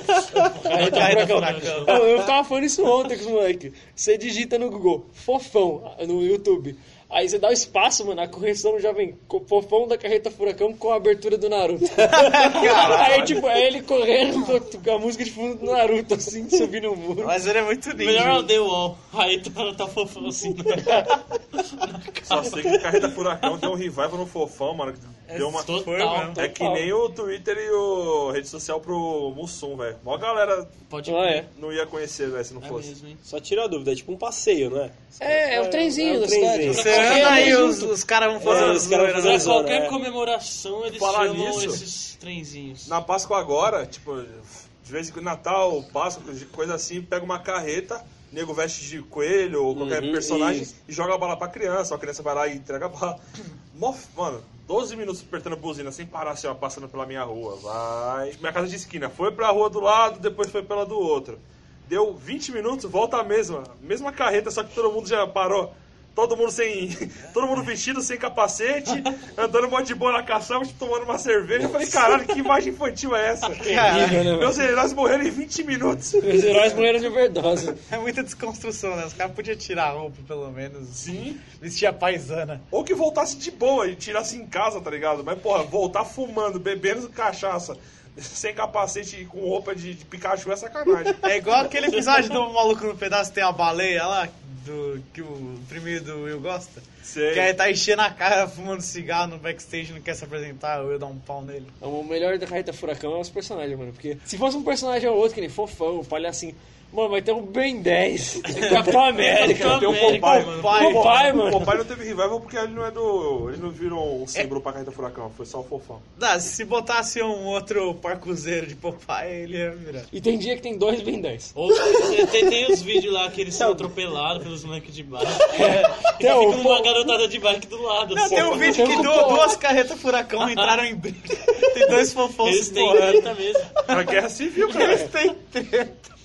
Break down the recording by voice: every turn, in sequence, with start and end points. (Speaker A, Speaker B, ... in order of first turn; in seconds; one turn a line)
Speaker A: 0.3-2.0
Speaker B: 0.5-17.4
Speaker C: 0.6-2.0
Speaker A: 12.0-13.2
Speaker D: 12.5-13.5
Speaker A: 17.2-18.5
Speaker C: 18.0-23.1
Speaker B: 20.8-21.2
Speaker D: 22.2-30.9
Speaker C: 25.3-26.4
Speaker A: 25.7-26.4
Speaker B: 26.4-26.9
Speaker C: 30.9-31.4
Speaker B: 31.1-31.5
Speaker D: 31.4-32.9
Speaker C: 32.6-33.2
Speaker E: 33.2-37.7
Speaker B: 35.2-37.9
Speaker C: 36.6-37.8
Speaker A: 36.7-39.6
Speaker E: 38.4-40.0
Speaker C: 38.4-43.0
Speaker D: 40.9-41.8
Speaker D: 42.9-53.2
Speaker E: 49.7-50.7
Speaker D: 53.7-76.8
Speaker B: 73.6-74.6
Speaker A: 73.6-74.3
Speaker B: 76.2-77.8
Speaker A: 77.9-82.6
Speaker D: 80.9-81.4
Speaker D: 82.7-91.4
Speaker A: 91.2-101.7
Speaker D: 97.0-97.5
Speaker B: 101.8-111.8
Speaker C: 108.5-111.1
Speaker D: 109.2-116.0
Speaker A: 110.4-111.3
Speaker A: 116.2-120.1
Speaker B: 120.1-121.5
Speaker C: 121.5-129.4
Speaker E: 123.5-123.9
Speaker B: 125.4-127.1
Speaker A: 128.1-133.3
Speaker D: 128.3-128.6
Speaker B: 128.6-129.6
Speaker C: 130.4-130.8
Speaker C: 132.4-133.8
Speaker D: 133.8-135.1
Speaker A: 134.7-136.1